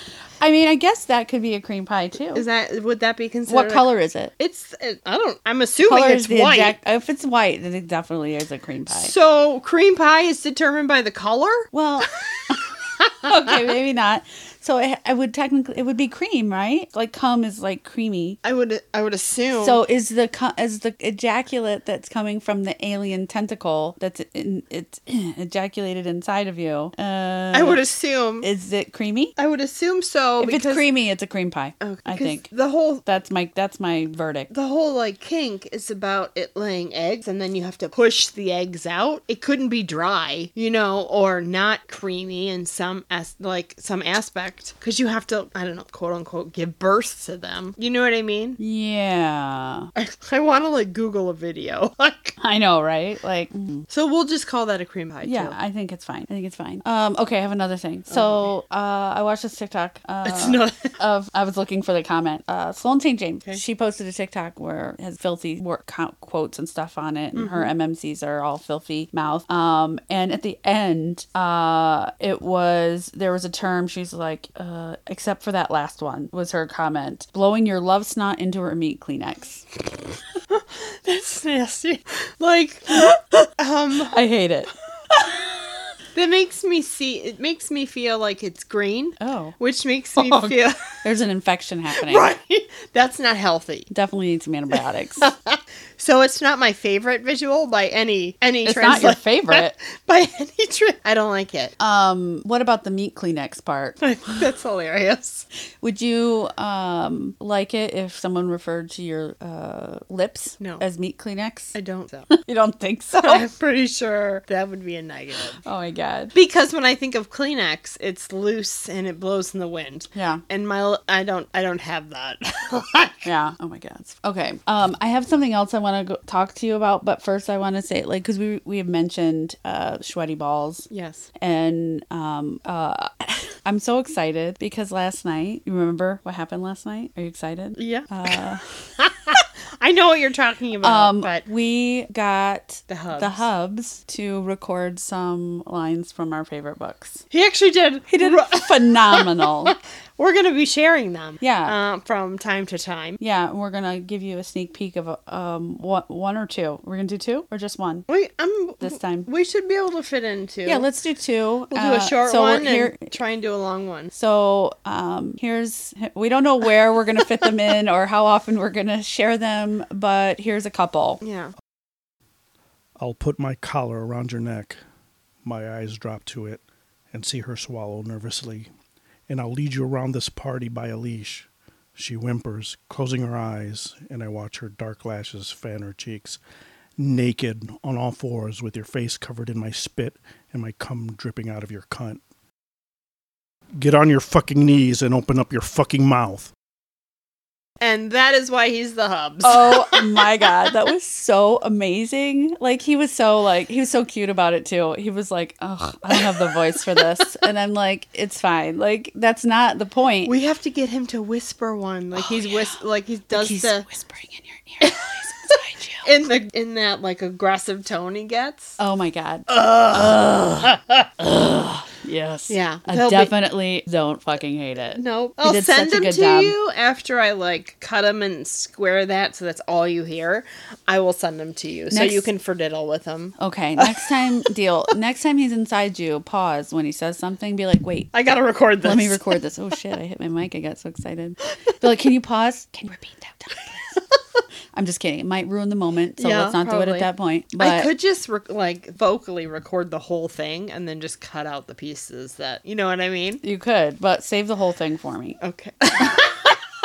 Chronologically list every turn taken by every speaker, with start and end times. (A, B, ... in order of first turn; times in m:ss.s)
0:00.4-0:02.4 A
0:02.3-0:03.9 B
0:03.5-0:04.3 A
0:04.4-0:06.8 B
0:05.8-0:09.1 A
0:08.9-0:11.7 B
0:11.7-0:12.6 A
0:13.0-0:13.5 B
0:13.2-0:18.4 A
0:18.4-0:19.8 B
0:19.6-0:27.8 A
0:27.5-0:28.5 B
0:28.4-0:29.3 A
0:29.4-0:30.9 B
0:30.4-0:32.5 A
0:31.8-0:33.1 B
0:33.0-0:34.5 A
0:34.5-0:48.6 B
0:48.6-0:49.9 A
0:50.0-0:52.4 B
0:52.4-0:53.9 A
0:53.9-0:55.6 B
0:55.2-1:19.7 A
0:58.1-0:58.5 B
1:00.2-1:01.0 B
1:07.4-1:07.7 B
1:20.5-1:24.2 B
1:22.9-1:23.5 A
1:24.1-1:25.3 A
1:26.2-1:30.8 B
1:29.2-1:29.6 A
1:30.2-1:32.3 A
1:32.0-1:33.9 B
1:33.9-1:35.3 A
1:35.2-1:41.8 B
1:38.6-1:39.7 A
1:41.8-1:44.0 A
1:44.0-1:45.4 B
1:45.8-1:51.7 A
1:51.7-1:52.3 B
1:52.3-1:53.4 A
1:53.1-1:55.6 B
1:55.6-1:56.3 A
1:56.3-2:03.3 B
2:00.1-2:00.4 A
2:03.2-2:18.7 A
2:10.9-2:11.3 B
2:17.8-2:18.4 B
2:19.0-2:21.4 B
2:20.8-2:27.2 A
2:22.9-2:23.4 B
2:27.3-2:33.2 B
2:28.1-2:29.8 A
2:31.4-2:31.8 A
2:33.2-2:38.0 A
2:38.1-2:40.8 B
2:38.8-2:39.3 A
2:40.7-2:43.1 A
2:41.7-2:44.1 B
2:44.1-2:51.2 A
2:51.2-2:51.5 B
2:53.0-2:54.8 C
2:55.4-2:56.6 C
2:57.1-2:58.7 C
2:59.3-3:06.4 C
3:07.0-3:12.2 C
3:13.8-3:16.5 C
3:17.8-3:20.4 B
3:19.4-3:30.3 A
3:30.2-3:33.9 B
3:32.2-3:32.6 A
3:33.3-3:36.1 A
3:34.8-3:35.2 B
3:36.0-3:38.8 B
3:38.8-3:46.6 A
3:39.5-3:41.1 B
3:42.5-3:43.3 B
3:45.0-3:54.1 B
3:51.9-3:52.3 A
3:53.4-3:58.1 A
3:58.1-3:59.3 B
3:58.8-4:04.0 A
4:04.7-4:07.9 A
4:06.2-4:13.4 B
4:13.4-4:15.4 A
4:15.4-4:16.6 B